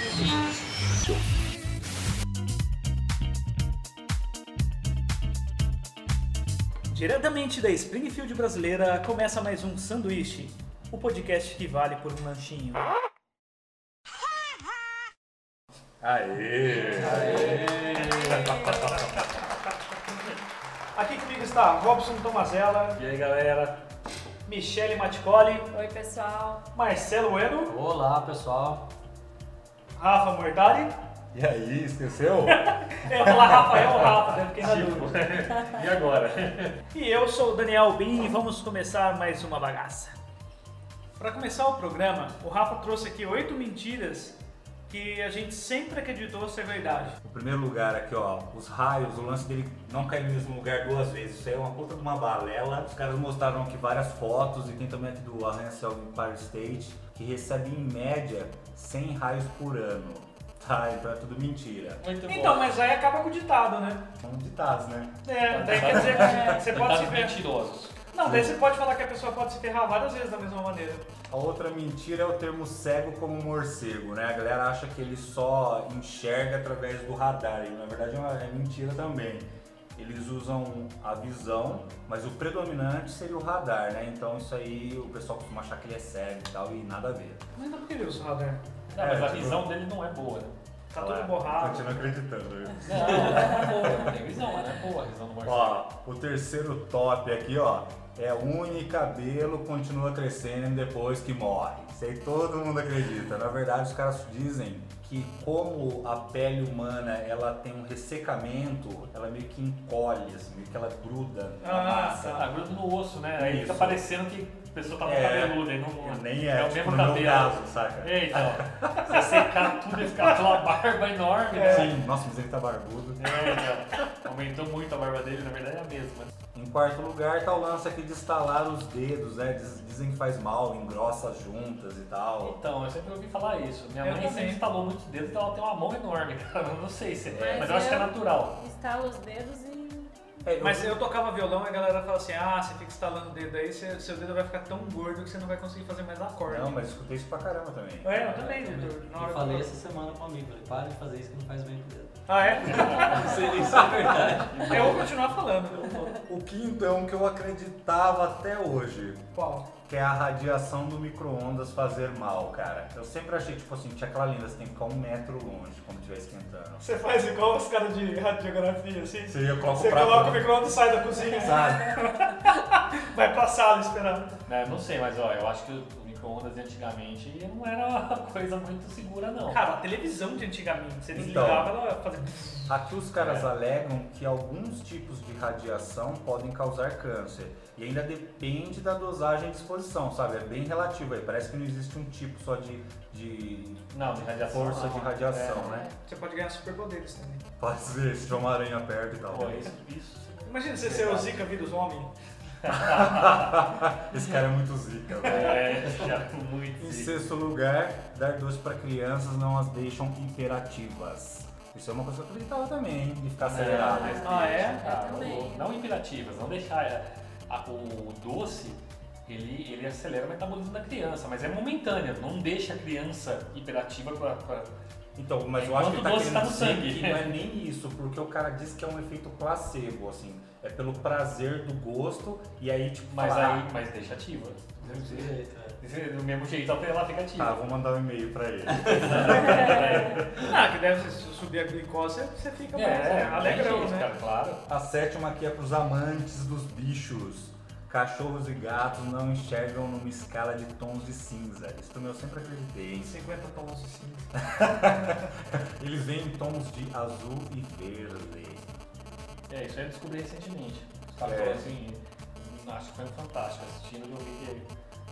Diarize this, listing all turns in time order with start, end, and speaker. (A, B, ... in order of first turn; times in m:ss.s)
0:06.9-0:12.8 A
0:16.0-0:17.8 B
0:16.7-0:17.4 C
0:17.0-0:18.4 D
0:17.6-0:19.0 E
0:18.2-0:19.1 C
0:21.0-0:23.0 A
0:23.0-0:23.8 C
0:24.5-0:25.7 A
0:25.7-0:26.6 E
0:26.7-0:27.8 A
0:27.7-0:28.9 D
0:30.0-0:31.0 A
0:31.3-0:34.1 B
0:32.5-0:35.2 A
0:33.3-0:36.8 C
0:36.9-0:40.2 A
0:41.2-0:44.4 A
0:44.9-0:47.2 A
0:47.2-1:02.0 B
1:02.0-1:02.8 C
1:02.3-1:04.1 A
1:04.2-1:06.6 B
1:05.2-1:07.4 A
1:05.5-1:07.9 C
1:08.1-1:11.1 A
1:08.2-1:08.6 B
1:11.3-1:27.4 B
1:27.6-1:28.6 A
1:28.9-1:30.6 C
1:29.0-1:29.7 B
1:30.9-1:32.1 A
1:31.0-1:34.2 B
1:32.8-1:35.9 C
1:35.4-1:52.5 B
1:51.6-1:52.5 A
1:52.2-2:02.0 C
1:53.4-1:54.0 B
1:55.0-1:59.2 B
1:59.1-1:59.5 A
2:00.2-2:00.6 A
2:01.5-2:01.9 A
2:01.6-2:03.6 B
2:03.2-2:06.3 C
2:06.5-2:12.6 B
2:12.4-2:18.6 C
2:14.0-2:14.6 A
2:17.3-2:20.2 E
2:17.4-2:17.7 B
2:20.4-2:21.0 B
2:20.6-2:26.8 A
2:26.5-2:28.4 B
2:28.0-2:29.8 A
2:28.3-2:34.8 D
2:32.3-2:33.7 A
2:32.5-2:35.1 C
2:34.6-2:36.2 A
2:34.8-2:35.0 B
2:36.1-2:39.3 B
2:39.4-2:39.7 A
2:39.8-2:46.8 B
2:46.8-2:54.4 A
2:49.3-2:50.5 B
2:51.4-2:52.0 B
2:54.5-2:59.7 C
2:59.5-3:02.8 A
3:01.1-3:01.7 B
3:02.7-3:13.9 B
3:03.2-3:03.5 C
3:13.9-3:15.9 C
3:14.5-3:15.9 B
3:16.0-3:17.4 A
3:17.6-3:19.7 B
3:19.3-3:21.4 C
3:20.5-3:22.1 A
3:22.6-3:23.6 C
3:22.8-3:26.0 B
3:25.2-3:27.1 C
3:26.8-3:34.6 B
3:33.4-3:44.7 C
3:33.6-3:34.8 A
3:33.8-3:35.8 E
3:45.2-3:53.7 B
3:45.6-3:47.3 C
3:53.1-3:57.6 C
3:54.8-3:55.8 D
3:57.4-4:00.2 B
3:58.8-3:59.3 D
3:58.9-4:00.5 C
4:00.4-4:04.1 A
4:02.7-4:04.6 C
4:04.7-4:13.2 B
4:13.0-4:14.3 A
4:14.4-4:18.8 B
4:19.5-4:24.7 C
4:21.2-4:21.7 B